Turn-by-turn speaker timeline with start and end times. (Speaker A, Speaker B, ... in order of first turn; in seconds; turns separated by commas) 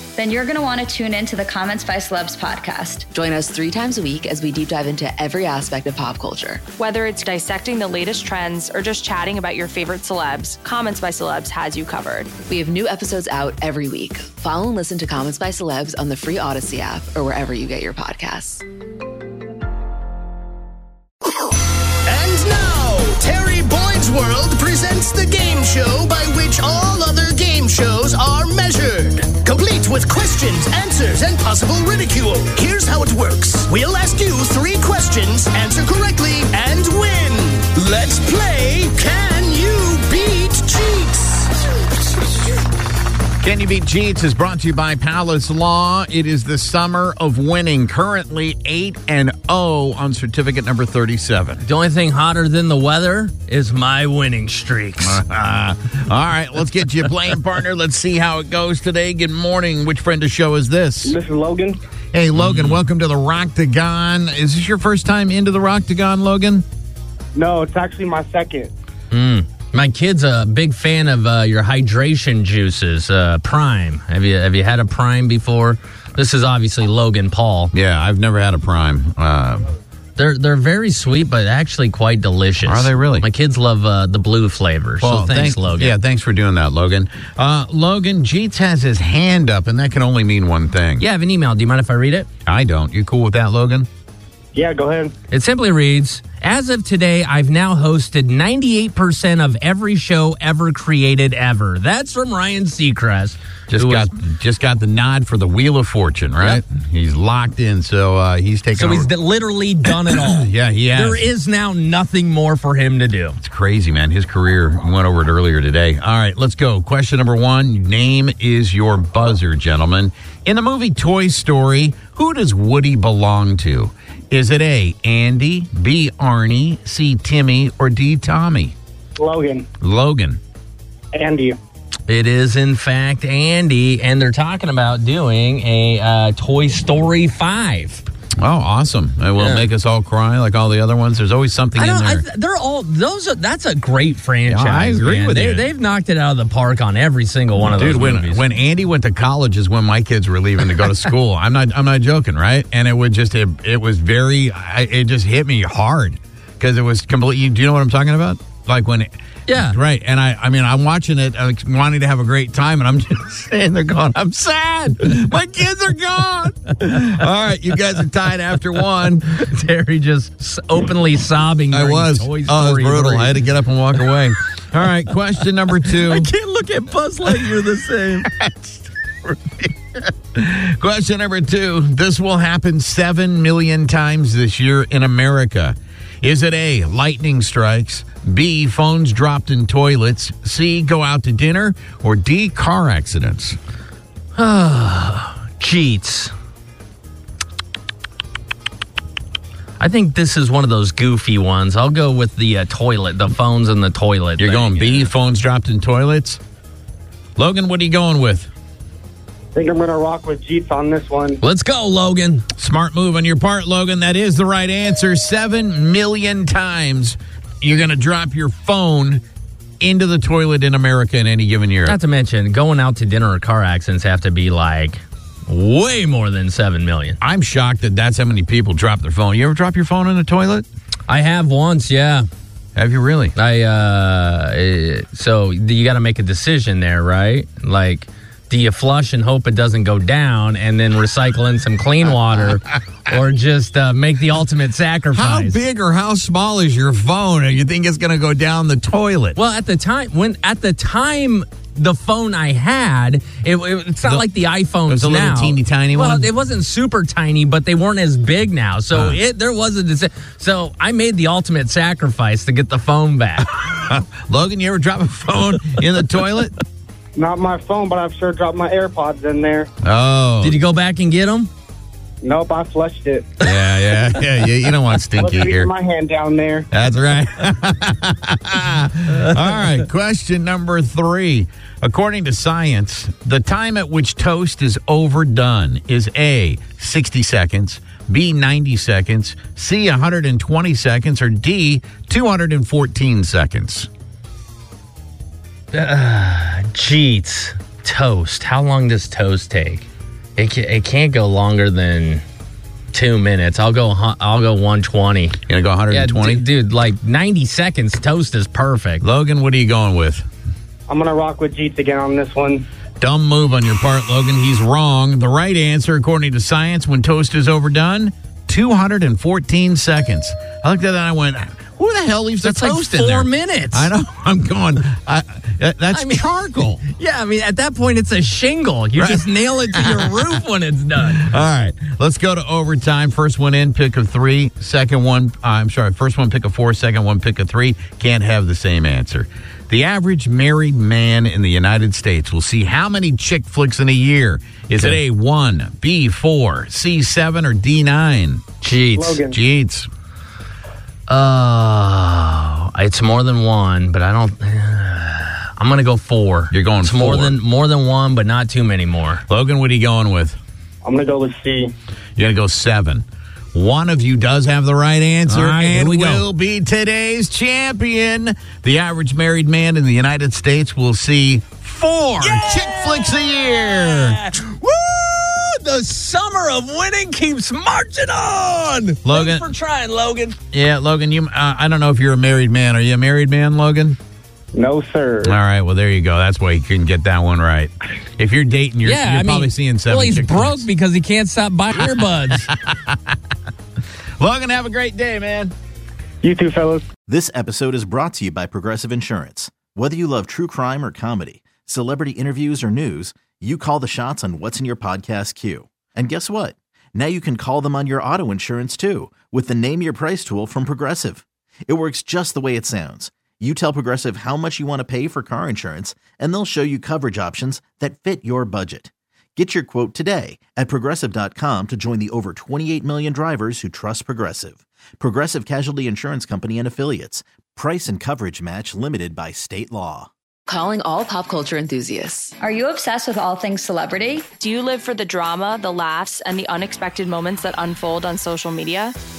Speaker A: 0.2-3.1, Speaker B: 3.1-6.6, Speaker C: 6.8-12.3, Speaker B: 12.5-18.6, Speaker D: 22.1-42.5, Speaker E: 43.4-51.6, Speaker F: 51.6-55.2, Speaker E: 55.0-61.1, Speaker G: 61.0-61.8, Speaker E: 62.1-66.7, Speaker F: 62.4-62.8, Speaker G: 67.3-68.7, Speaker F: 69.1-77.7, Speaker E: 77.7-79.7, Speaker F: 80.2-86.0, Speaker E: 82.6-83.2, Speaker E: 85.0-91.0, Speaker F: 91.0-92.3, Speaker E: 92.5-93.9, Speaker G: 94.5-95.1, Speaker F: 95.3-104.1, Speaker E: 103.7-109.1, Speaker F: 108.8-113.4, Speaker E: 109.8-111.2, Speaker E: 113.4-128.7, Speaker G: 129.2-129.7, Speaker E: 129.8-130.4, Speaker G: 131.2-131.6, Speaker F: 132.1-138.0, Speaker E: 138.4-142.2, Speaker F: 139.4-139.7, Speaker F: 141.8-148.4, Speaker E: 144.5-145.7, Speaker E: 147.6-169.2, Speaker F: 159.5-159.8, Speaker F: 169.2-173.5, Speaker E: 171.7-176.3, Speaker F: 175.9-178.3, Speaker E: 178.1-193.6, Speaker F: 194.4-196.3, Speaker F: 199.8-205.1, Speaker E: 204.4-206.4, Speaker E: 207.4-208.5, Speaker G: 209.6-211.4, Speaker F: 211.4-212.5, Speaker E: 212.6-219.2, Speaker E: 219.8-222.0, Speaker F: 221.9-227.2, Speaker E: 227.2-230.7, Speaker F: 231.1-232.3, Speaker E: 232.8-233.3, Speaker F: 233.3-245.6, Speaker E: 245.1-249.4, Speaker F: 249.3-263.5, Speaker E: 254.8-256.3, Speaker E: 258.9-259.2, Speaker E: 263.4-266.5, Speaker G: 267.1-269.7, Speaker E: 269.8-270.6, Speaker F: 270.4-271.5, Speaker G: 272.2-273.3, Speaker E: 273.4-275.7, Speaker G: 275.2-276.6, Speaker E: 276.7-293.9, Speaker F: 295.7-302.2, Speaker F: 302.9-305.4, Speaker E: 305.5-306.4, Speaker F: 305.9-309.0, Speaker E: 309.0-310.2, Speaker G: 310.9-312.6, Speaker E: 313.0-326.8, Speaker F: 322.4-323.9, Speaker F: 325.9-326.2, Speaker F: 326.8-331.4, Speaker E: 329.0-330.2, Speaker E: 331.0-348.4, Speaker F: 348.6-349.3, Speaker G: 349.0-349.3, Speaker E: 349.2-349.9, Speaker F: 351.1-359.2, Speaker E: 356.5-357.4, Speaker E: 359.3-360.4, Speaker G: 360.8-361.7, Speaker E: 362.1-374.2, Speaker F: 365.3-366.3, Speaker F: 372.2-380.4, Speaker E: 379.0-379.5, Speaker E: 380.5-384.0, Speaker G: 384.5-385.3, Speaker E: 385.2-390.7, Speaker F: 388.8-392.5, Speaker E: 391.8-393.1, Speaker E: 394.2-395.5, Speaker G: 396.2-396.9, Speaker H: 397.1-430.1, Speaker B: 430.5-432.3, Speaker A: 432.4-434.3, Speaker C: 434.4-438.9